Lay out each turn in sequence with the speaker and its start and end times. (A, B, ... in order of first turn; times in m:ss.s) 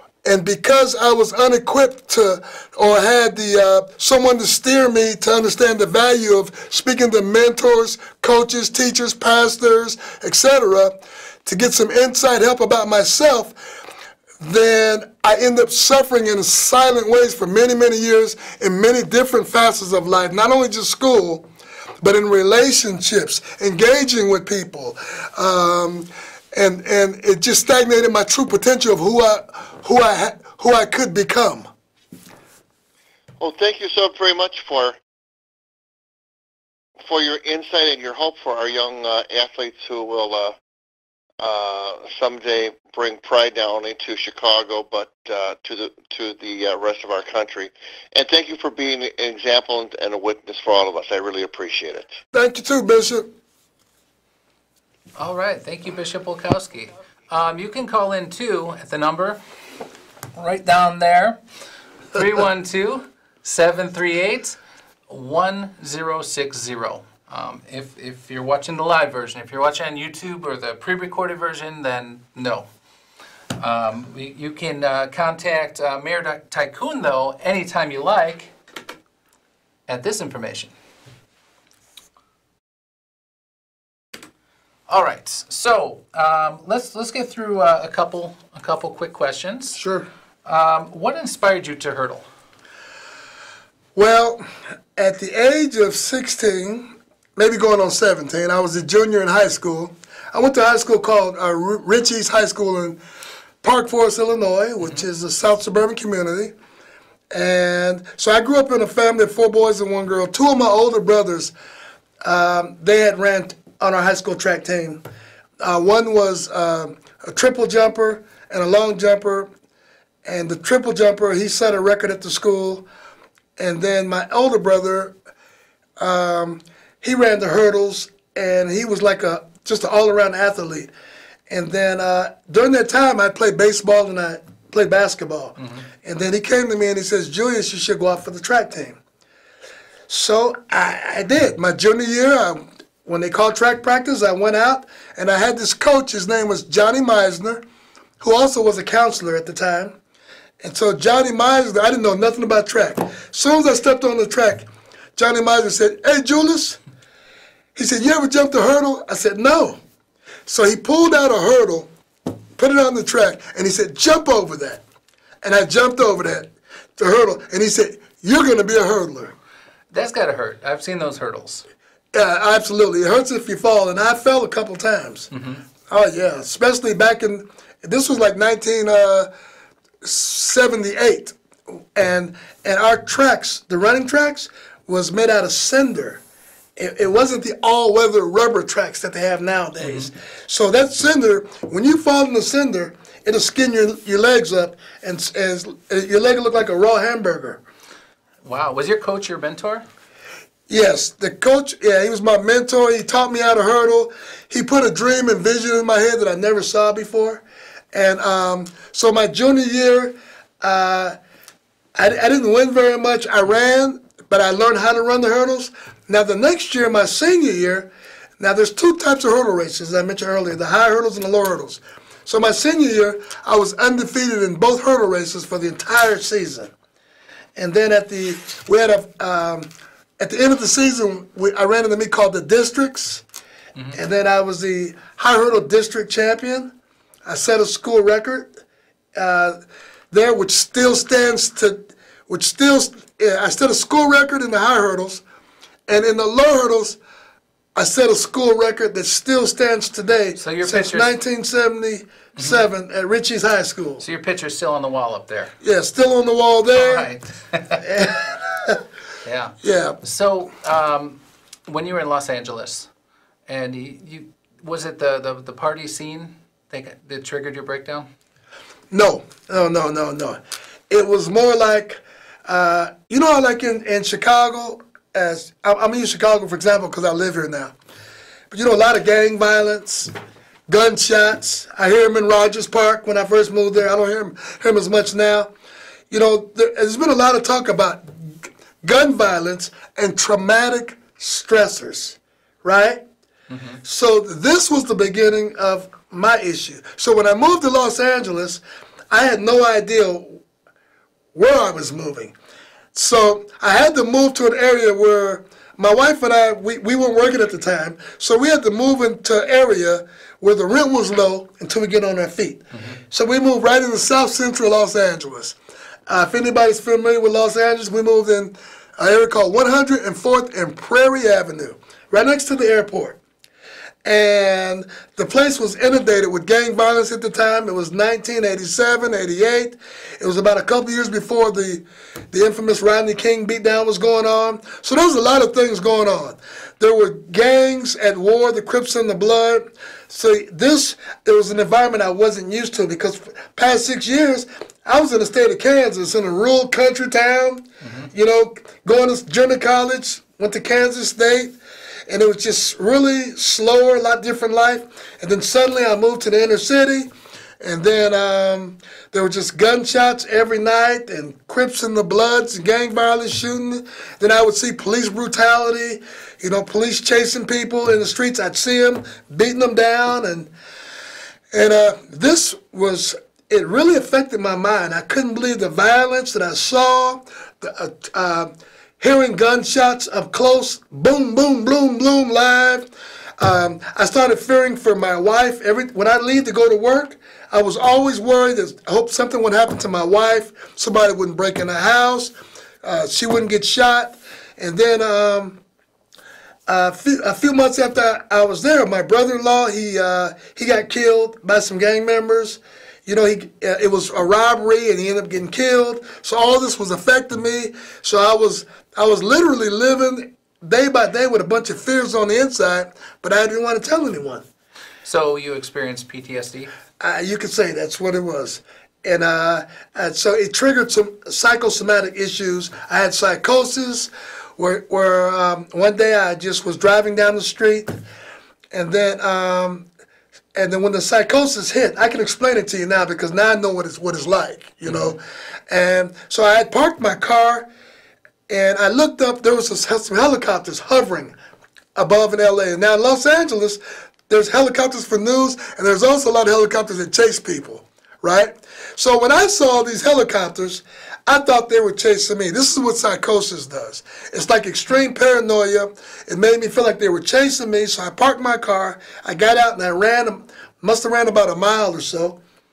0:00.2-0:13.6 A
0:14.4-0:21.5 A
0:22.0-0:31.7 A
0:33.4-0:35.0 B
0:37.0-0:40.6 B
0:41.4-0:52.2 B
0:52.3-0:53.3 A
0:55.2-0:59.4 C
1:00.4-1:01.4 C
1:02.1-1:12.7 C
1:13.6-1:18.5 C
1:19.9-1:20.7 C
1:24.9-1:29.8 C
1:29.8-1:30.1 A
1:30.4-1:32.2 C
1:34.0-1:34.4 A
1:35.0-1:43.0 A
1:43.6-1:46.5 A
1:47.3-1:51.5 A
1:52.2-1:55.0 A
1:55.6-1:59.5 A
2:00.2-2:02.9 A
2:03.6-2:05.1 A
2:06.0-2:10.9 A
2:11.5-2:19.0 A
2:20.1-2:27.6 A
2:28.2-2:30.0 A
2:30.6-2:36.8 A
2:37.8-2:39.8 A
2:40.5-2:41.9 A
2:42.6-2:44.8 A
2:45.4-2:49.4 A
2:49.9-2:51.6 C
2:52.1-2:55.3 A
2:55.3-2:55.6 C
2:55.9-2:59.3 A
3:00.0-3:01.4 A
3:01.9-3:06.2 A
3:06.8-3:17.6 A
3:09.8-3:10.1 C
3:18.4-3:19.8 C
3:20.7-3:31.2 A
3:32.0-3:46.7 A
3:47.6-3:53.2 A
3:53.9-3:56.7 A
3:57.2-3:58.6 A
3:59.2-3:59.6 A
4:00.1-4:05.2 A
4:05.9-4:07.0 A
4:07.8-4:14.0 A
4:10.4-4:11.1 C
4:14.0-4:15.5 C
4:15.6-4:17.1 A
4:16.8-4:17.8 C
4:17.8-4:18.8 A
4:19.2-4:22.9 C
4:19.6-4:20.0 A
4:23.5-4:28.1 C
4:28.9-4:30.4 A
4:30.9-4:37.8 A
4:38.5-4:40.1 A
4:40.7-4:45.5 A
4:46.1-4:53.0 A
4:53.5-4:53.8 C
4:53.8-5:00.4 A
5:01.3-5:02.3 A
5:02.9-5:23.2 A
5:12.7-5:13.0 C
5:24.0-5:51.6 A
5:47.8-5:48.1 C
5:52.1-6:10.5 A
6:11.5-6:35.6 A
6:36.7-6:54.4 A
6:55.0-6:56.7 C
6:57.0-7:08.0 A
7:08.7-7:09.9 A
7:10.6-7:17.7 A
7:18.5-7:21.3 A
7:22.0-7:42.4 A